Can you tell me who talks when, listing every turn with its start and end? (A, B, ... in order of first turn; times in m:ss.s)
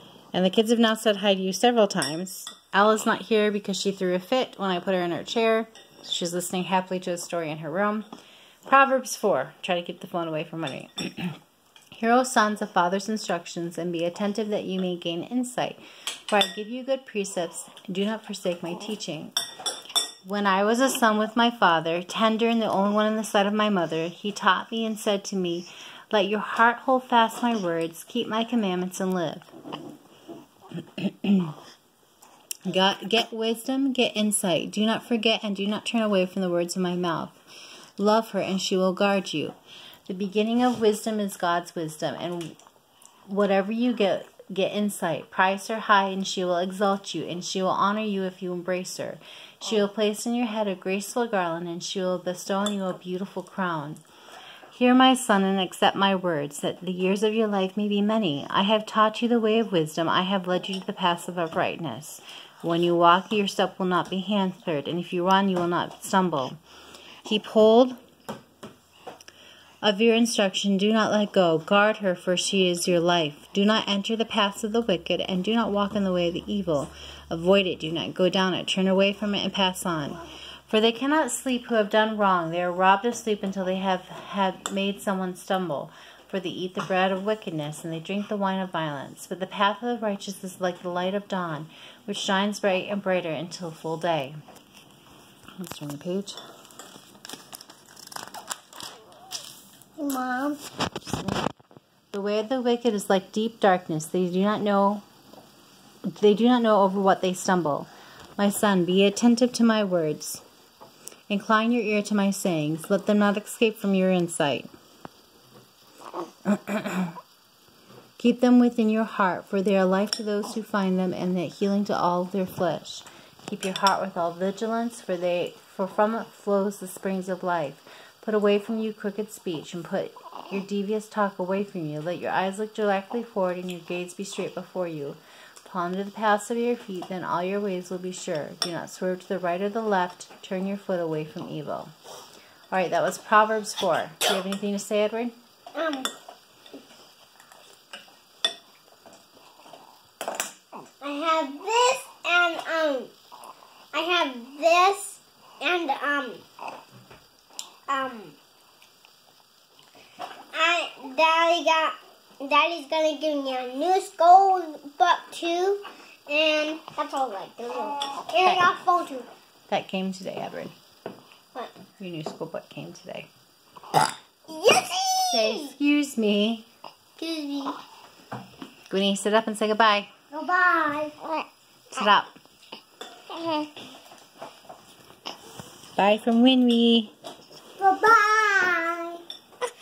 0:00.3-0:08.1 A
0:08.7-0:11.4 A
0:11.9-0:19.4 A
0:20.2-0:29.5 A
0:30.8-0:31.6 A
0:32.6-0:37.4 A
0:38.0-0:39.6 A
0:40.1-0:42.6 A
0:43.3-0:54.0 A
0:54.7-1:06.6 A
1:07.2-1:08.0 A
1:09.8-1:34.4 A
1:35.6-1:36.4 A
1:40.0-1:40.7 B
1:41.0-1:41.4 A
1:42.1-1:45.0 A
1:46.1-1:50.4 A
1:51.3-1:54.7 A
1:56.4-1:57.2 A
1:58.2-2:21.9 A
2:22.7-2:25.4 A
2:25.8-2:26.1 B
2:31.0-2:33.1 B
2:33.9-2:36.4 B
2:37.9-2:38.4 B
2:40.5-2:49.3 B
2:49.7-2:50.8 A
2:52.0-2:53.3 A
2:54.5-2:55.7 B
2:55.3-2:56.7 A
2:57.2-2:57.8 B
2:58.9-3:00.1 A
3:00.3-3:01.5 B
3:01.9-3:02.3 A
3:03.4-3:03.7 B
3:06.0-3:07.1 A
3:07.8-3:09.2 B